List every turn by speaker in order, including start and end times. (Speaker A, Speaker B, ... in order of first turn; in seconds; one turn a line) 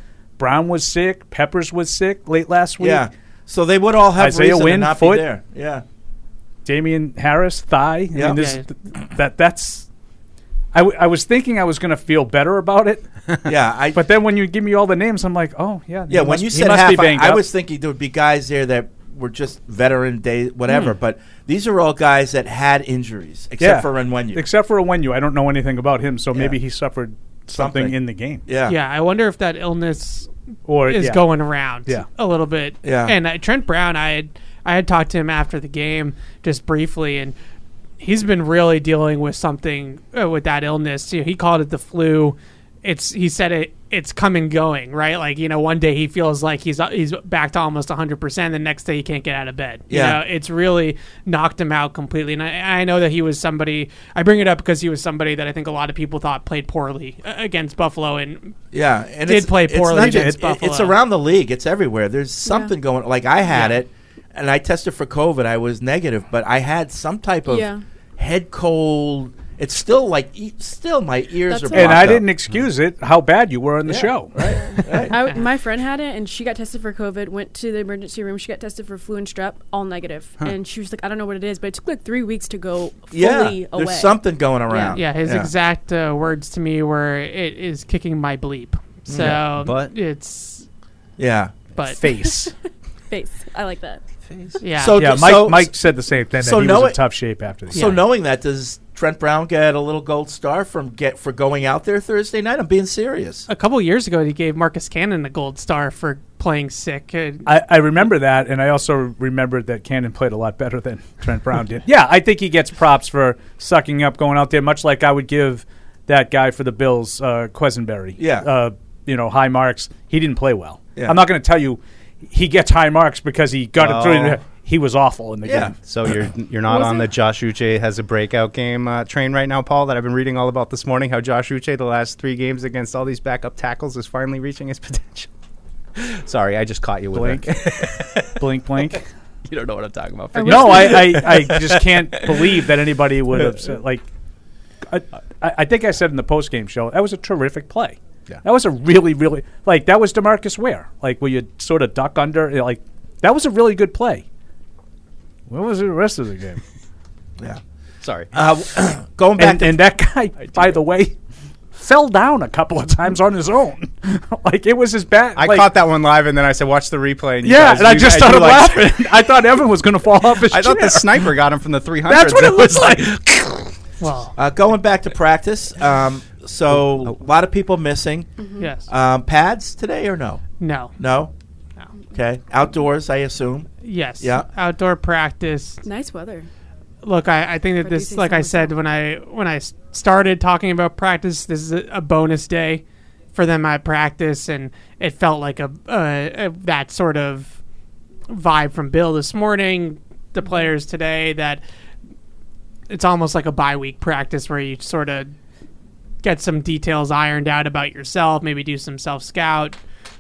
Speaker A: 0.4-3.1
Speaker B: 2.8-5.8
Speaker A: 4.2-5.2
Speaker A: 6.7-9.9
Speaker C: 8.3-8.7
Speaker A: 10.7-13.1
Speaker B: 13.5-14.0
Speaker A: 13.9-17.4
Speaker B: 16.1-24.4
Speaker A: 23.6-28.4
Speaker B: 26.3-26.6
Speaker B: 27.5-27.9
Speaker B: 28.5-28.8
Speaker C: 28.7-30.3
Speaker A: 30.7-31.2
Speaker C: 30.8-37.4
Speaker B: 32.8-33.2
Speaker C: 38.0-58.6
Speaker B: 49.9-50.2
Speaker B: 58.7-72.3
Speaker C: 59.2-61.0
Speaker A: 59.9-60.4
Speaker D: 62.5-62.7
Speaker C: 63.5-63.8
Speaker D: 67.5-67.8
Speaker D: 71.5-72.1
Speaker A: 71.7-74.8
Speaker B: 73.9-75.2
Speaker D: 75.1-84.2
Speaker B: 83.1-85.5
Speaker D: 84.7-85.0
Speaker C: 84.8-90.7
Speaker B: 89.1-89.4
Speaker E: 89.1-89.9
Speaker B: 91.2-91.6
Speaker C: 91.8-92.0
Speaker A: 91.9-92.5
Speaker D: 93.1-94.0
Speaker C: 94.6-95.1
Speaker B: 94.8-95.7
Speaker A: 94.9-98.0
Speaker B: 96.4-97.0
Speaker B: 97.7-103.5
Speaker C: 97.7-98.0
Speaker C: 103.5-107.5
Speaker A: 107.5-125.7
Speaker B: 118.2-118.5
Speaker B: 121.0-121.2
Speaker E: 123.8-124.4
Speaker B: 125.5-125.8
Speaker E: 125.8-135.3
Speaker D: 126.7-127.1
Speaker E: 136.0-138.4
Speaker A: 137.1-139.1
Speaker E: 139.5-142.6
Speaker D: 140.4-141.0
Speaker A: 140.4-144.1
Speaker A: 144.9-154.3
Speaker A: 155.5-156.6
Speaker E: 158.0-158.3
Speaker B: 158.3-159.8
Speaker A: 159.4-161.2
Speaker A: 161.8-165.7
Speaker E: 165.3-169.2
Speaker A: 167.4-171.3
Speaker E: 170.3-173.2
Speaker A: 172.1-173.7
Speaker C: 174.0-174.3
Speaker B: 174.4-178.3
Speaker D: 178.4-178.7
Speaker C: 178.6-178.9
Speaker B: 178.9-180.4
Speaker C: 180.6-180.9
Speaker B: 181.0-181.3
Speaker B: 182.1-184.5
Speaker C: 183.8-185.8
Speaker D: 185.8-186.5
Speaker C: 187.0-192.8
Speaker D: 187.8-188.8
Speaker C: 193.3-197.6
Speaker C: 198.3-201.6
Speaker C: 202.9-205.3
Speaker C: 206.2-209.8